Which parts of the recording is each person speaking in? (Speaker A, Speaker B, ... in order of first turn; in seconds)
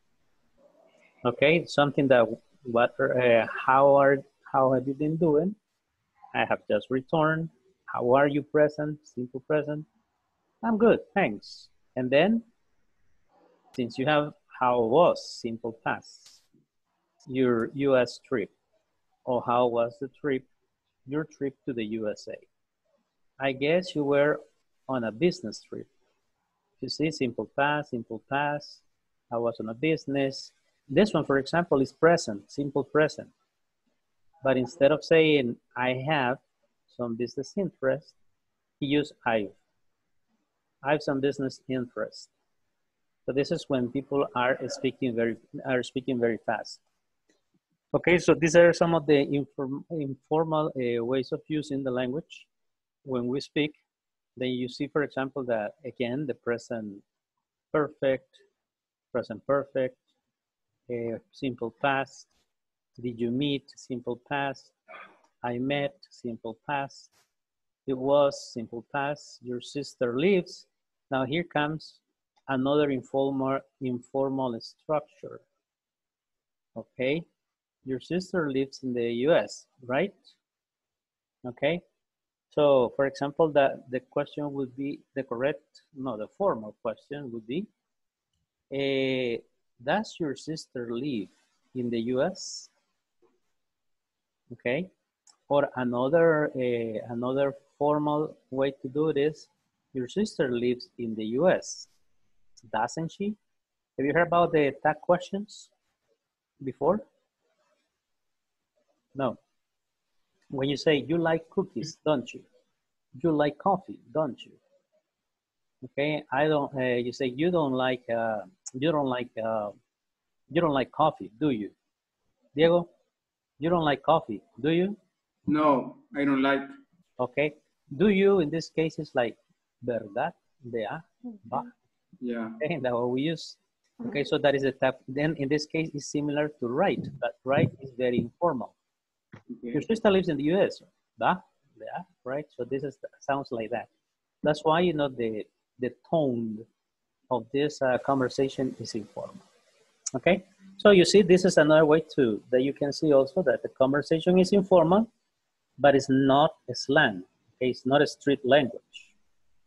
Speaker A: 1.2-5.6, 6.3-9.8, 10.6-12.4, 13.7-16.4, 17.3-18.5, 19.2-20.4, 21.1-22.5, 23.4-25.9, 26.8-33.3, 34.4-38.1, 38.8-39.5, 40.8-42.3, 43.3-46.8, 47.9-52.5, 53.0-53.8, 54.4-57.0, 57.7-58.4, 59.1-60.0, 60.9-62.3, 63.0-64.7, 65.4-67.1, 67.8-75.4, 76.8-77.3, 77.8-80.2, 81.4-81.8, 82.5-87.7, 88.7-92.7, 94.5-94.9, 95.5-101.9, 102.7-103.4, 104.0-105.7, 106.6-107.0, 110.5-112.5, 113.1-114.6, 115.8-119.7, 120.5-121.7, 122.5-122.9, 123.6-125.0, 127.2-131.7, 132.6-138.7, 139.7-143.9, 144.4-146.7, 147.3-149.4, 150.1-155.1, 155.8-159.1
Speaker B: 125.5-126.7, 132.2-132.6, 139.5-139.8